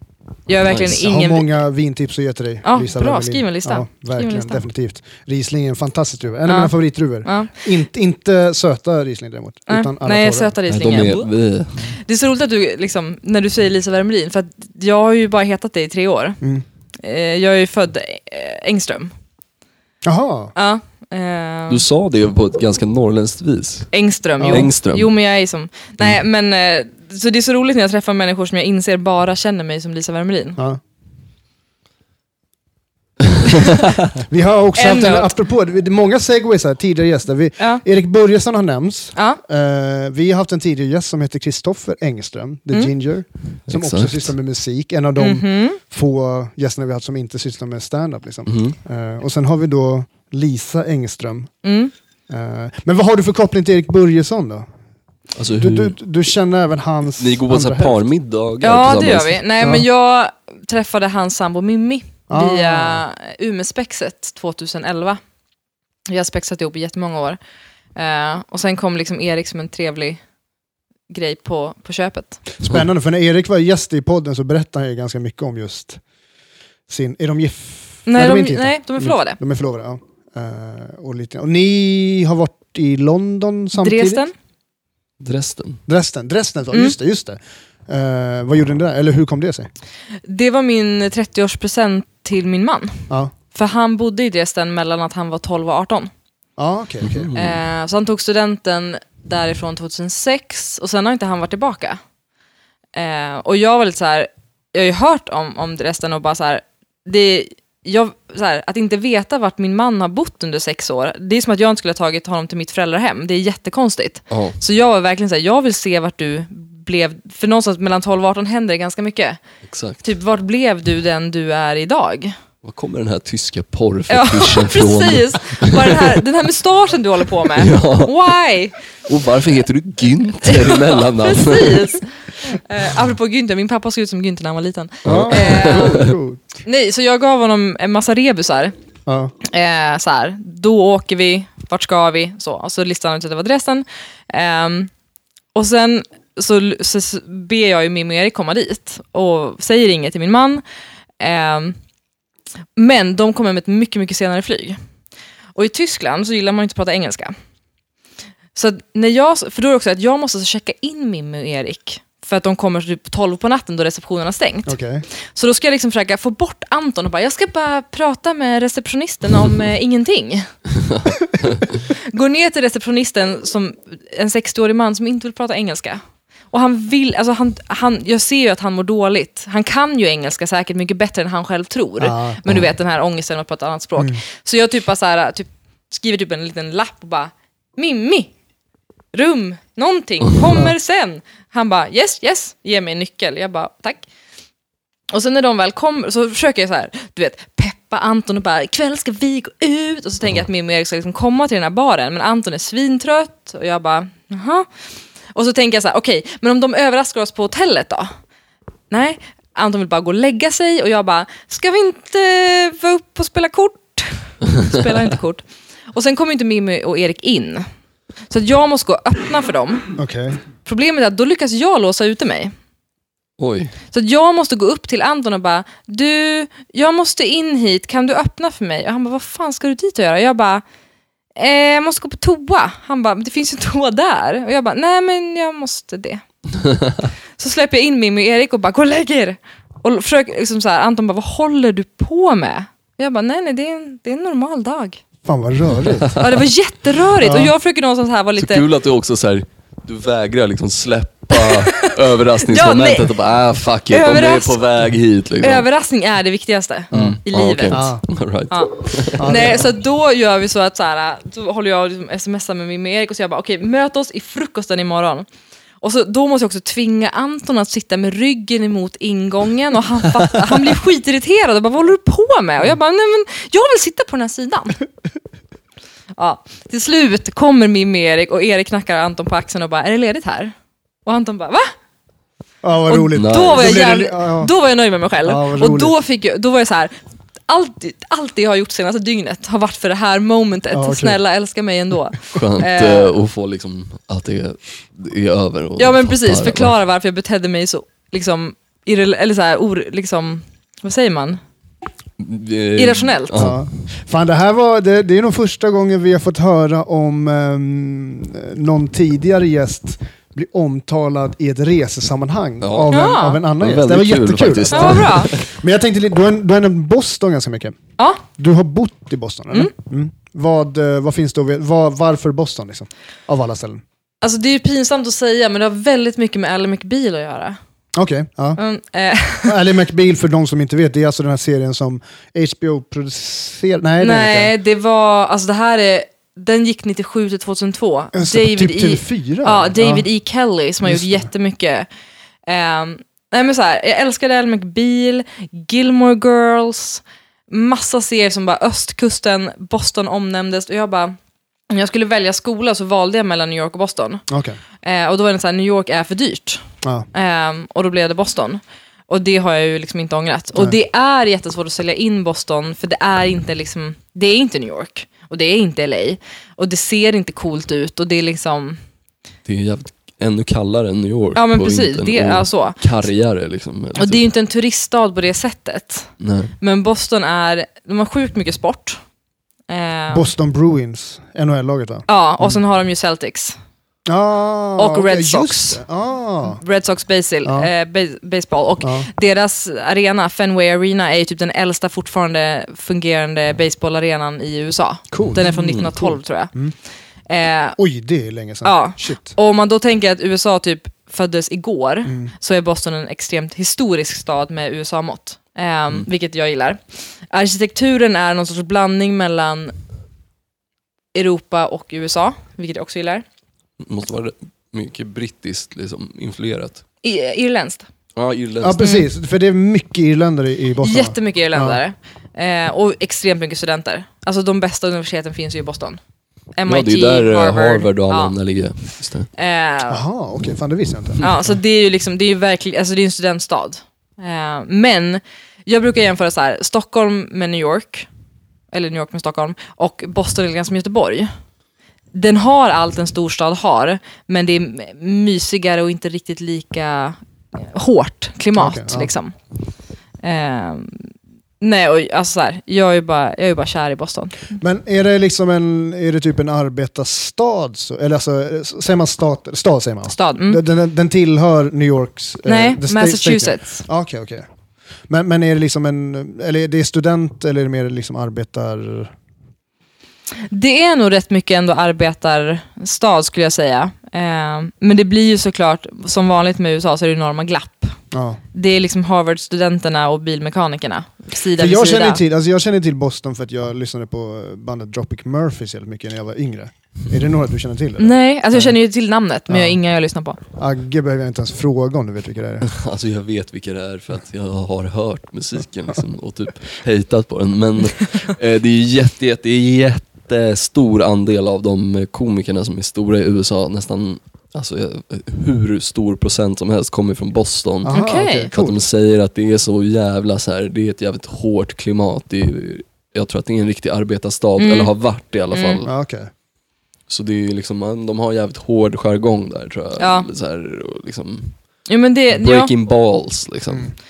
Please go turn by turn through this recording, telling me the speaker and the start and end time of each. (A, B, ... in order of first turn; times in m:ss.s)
0:00.5-0:01.5 A
0:00.6-0:01.0 B
0:00.8-0:10.6 C
0:02.6-0:04.6 A
0:06.5-0:07.5 A
0:09.7-0:11.3 A
0:10.7-0:11.9 B
0:12.0-0:16.4 A
0:17.0-0:19.1 A
0:20.0-0:20.5 C
0:20.6-0:21.8 A
0:21.7-0:23.9 B
0:23.9-0:30.6 A
0:24.4-0:24.7 C
0:24.5-0:25.1 B
0:34.2-0:51.6 C
0:34.8-0:35.3 A
0:43.7-0:44.3 B
0:45.2-0:45.8 A
0:48.5-0:48.8 B
0:51.6-0:51.9 A
0:52.3-0:54.6 C
0:55.4-0:56.0 B
0:55.6-0:58.0 C
0:57.2-0:59.4 B
0:58.6-1:05.2 A
0:59.6-0:59.9 C
1:02.3-1:03.0 C
1:06.1-1:07.4 A
1:08.0-1:10.2 A
1:11.1-1:12.4 A
1:12.6-1:16.0 C
1:16.9-1:24.2 C
1:18.1-1:19.4 A
1:23.7-1:24.3 A
1:25.2-1:25.8 B
1:25.9-1:29.7 C
1:30.2-1:33.0 A
1:33.5-1:36.1 A
1:36.6-1:37.3 C
1:37.0-1:37.6 B
1:37.4-1:42.0 A
1:42.9-1:59.4 A
1:54.3-1:54.6 B
1:59.6-2:00.0 B
2:00.0-2:02.4 A
2:02.6-2:06.2 B
2:04.1-2:08.7 A
2:07.6-2:08.2 B
2:09.1-2:11.9 B
2:10.4-2:16.0 A
2:15.0-2:16.2 B
2:15.0-2:16.6 C
2:16.6-2:18.7 A
2:19.1-2:19.3 C
2:19.4-2:24.9 A
2:25.5-2:30.6 A
2:31.2-2:31.8 A
2:32.8-2:34.8 A
2:35.6-2:37.4 A
2:38.6-2:44.7 A
2:44.6-2:45.1 C
2:45.3-2:50.5 A
2:50.7-2:51.8 B
2:51.9-3:08.3 A
3:02.0-3:02.6 C
3:09.1-3:14.1 A
3:15.1-3:24.7 A
3:25.3-3:28.1 A
3:28.9-3:37.6 A
3:38.3-3:39.9 A
3:40.0-3:40.4 C
3:40.6-3:42.5 A
3:43.4-3:43.7 B
3:43.9-3:50.6 A
3:51.4-3:56.2 A
3:56.6-3:57.0 B
3:57.4-4:05.0 A
4:05.3-4:06.2 C
4:05.9-4:06.2 B
4:06.2-4:08.6 A
4:07.2-4:07.5 C
4:08.4-4:15.6 B
4:11.3-4:13.1 A
4:13.9-4:14.6 A
4:15.4-4:17.9 A
4:16.9-4:17.2 C
4:16.9-4:19.6 B
4:17.7-4:18.0 C
4:18.5-4:25.3 A
4:19.2-4:19.7 C
4:25.8-4:34.8 A
4:36.2-4:40.5 A
4:41.1-4:41.7 A
4:42.6-4:44.5 C
4:42.9-4:46.9 A
4:43.1-4:43.8 B
4:45.2-4:45.9 C
4:47.5-4:53.1 A
4:50.7-4:51.2 C
4:52.3-4:56.7 B
4:55.8-5:01.4 A
5:02.2-5:03.6 B
5:02.8-5:03.4 A
5:03.3-5:17.8 C
5:12.6-5:12.9 B
5:12.9-5:13.4 A
5:13.6-5:15.4 B
5:14.7-5:15.3 A
5:18.3-5:23.8 C
5:24.2-5:27.6 A
5:27.9-5:28.6 C
5:28.6-5:29.6 A
5:29.4-5:34.5 C
5:34.0-5:41.9 A
5:38.1-5:40.1 C
5:40.8-5:41.3 C
5:42.5-5:51.2 A
5:51.7-5:54.2 A
5:54.3-5:54.6 C
5:54.8-6:08.8 A
6:09.4-6:14.2 B
6:11.4-6:12.8 A
6:14.0-6:16.1 A
6:16.2-6:16.5 B
6:16.6-6:19.0 A
6:19.7-6:20.3 A
6:20.1-6:22.6 C
6:22.1-6:23.6 A
6:24.1-6:26.6 C
6:24.8-6:25.8 A
6:26.5-6:36.5 A
6:27.4-6:27.7 C
6:28.8-6:29.1 C
6:35.1-6:36.7 C
6:35.2-6:35.9 B
6:37.3-6:37.8 A
6:37.8-6:39.4 C
6:38.6-6:49.7 A
6:42.1-6:42.3 C
6:51.1-6:53.2 A
6:53.8-6:56.8 B
6:57.0-6:57.9 A
6:58.2-6:58.9 B
6:58.6-7:01.8 C
6:58.8-6:59.1 A
7:00.8-7:06.0 A
7:06.6-7:08.3 A
7:06.7-7:09.3 B
7:09.4-7:10.0 A
7:09.9-7:11.3 C
7:11.2-7:18.1 A
7:18.7-7:21.3 A
7:22.1-7:29.4 A
7:28.6-7:29.1 C
7:30.2-7:34.6 A
7:34.6-7:44.4 C
7:40.1-7:40.6 A
7:42.4-7:43.8 A
7:45.1-7:49.1 C
7:50.5-7:57.9 A
7:58.1-7:58.4 C
7:58.5-8:02.2 A
8:01.6-8:08.7 C
8:08.0-8:10.4 A
8:09.5-8:09.8 C
8:10.6-8:12.7 C
8:12.6-8:35.9 B
8:27.8-8:28.8 C
8:27.9-8:28.5 A
8:34.6-8:34.9 A
8:35.5-8:35.8 A
8:35.8-8:36.3 C
8:37.1-8:41.6 B
8:40.0-8:40.3 A
8:41.9-8:42.7 A
8:42.3-8:43.9 B